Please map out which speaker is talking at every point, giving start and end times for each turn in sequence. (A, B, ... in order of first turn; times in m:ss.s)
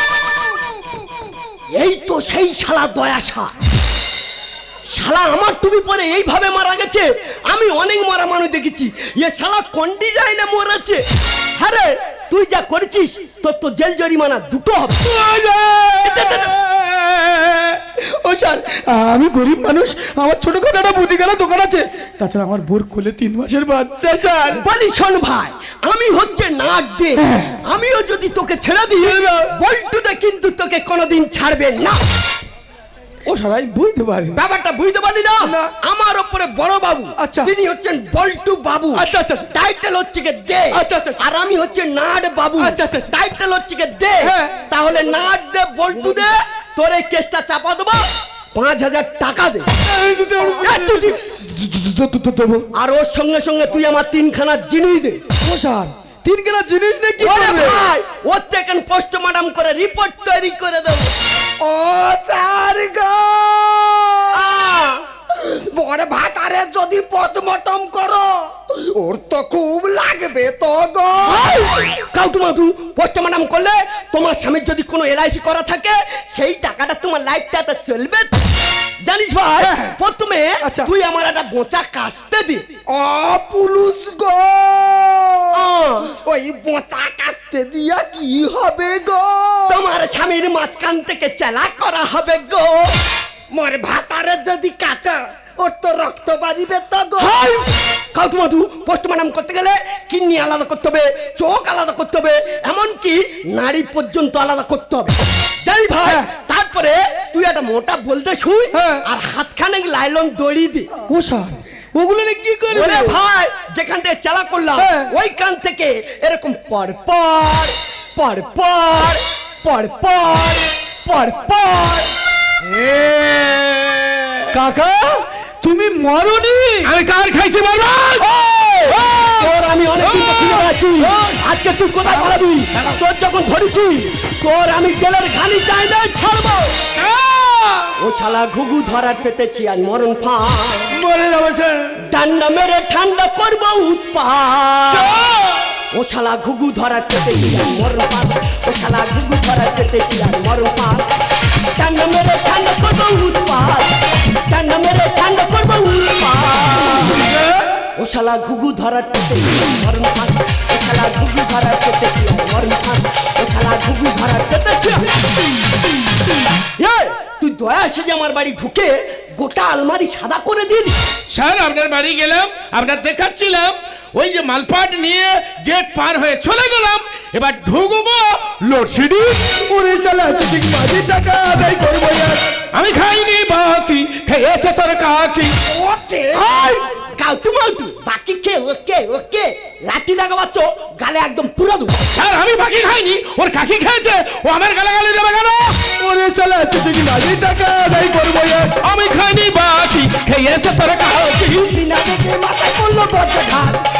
0:01.7-0:03.5 A
0:04.9-0:11.0 A
0:11.6-0:15.1 A
0:15.1-0:16.1 B
0:16.0-0:16.5 A
0:16.2-0:17.3 C
0:18.0-0:24.6 B
0:24.5-0:32.0 A
0:27.2-0:27.6 B
0:29.0-0:29.5 B
0:33.2-0:34.4 B
0:34.3-0:49.7 A
0:35.4-0:35.7 B
0:37.2-0:37.5 B
0:38.9-0:39.5 B
0:40.7-0:41.2 B
0:42.6-0:43.1 B
0:44.2-0:44.6 B
0:49.8-0:52.7 B
0:50.6-0:51.2 A
0:52.7-0:55.2 A
0:55.4-0:57.9 B
0:57.2-1:01.1 A
1:01.6-1:04.4 D
1:04.3-1:05.0 A
1:05.3-1:11.6 D
1:11.2-1:18.4 A
1:19.0-1:22.6 A
1:19.6-1:20.0 B
1:20.6-1:20.9 B
1:22.9-1:29.9 D
1:25.5-1:26.1 A
1:29.7-1:32.9 A
1:33.5-1:37.4 D
1:37.2-1:50.9 A
1:48.7-1:49.0 B
1:51.1-1:53.2 B
1:52.7-2:02.1 A
1:54.8-1:55.1 B
2:02.6-2:04.5 C
2:04.5-2:06.9 B
2:06.8-2:11.4 C
2:08.2-2:16.8 A
2:17.0-2:17.9 C
2:18.0-2:20.9 A
2:20.9-2:21.8 C
2:22.1-2:25.2 A
2:24.9-2:25.6 C
2:25.9-2:31.0 A
2:31.8-2:37.2 A
2:37.1-2:37.6 C
2:38.0-2:45.0 A
2:46.8-2:50.9 A
2:51.3-2:59.5 C
2:59.6-3:02.4 B
3:02.7-3:05.5 C
3:05.7-3:06.5 D
3:06.4-3:12.0 A
3:12.1-3:15.8 C
3:16.0-3:18.8 B
3:18.8-3:21.7 C
3:21.6-3:23.8 D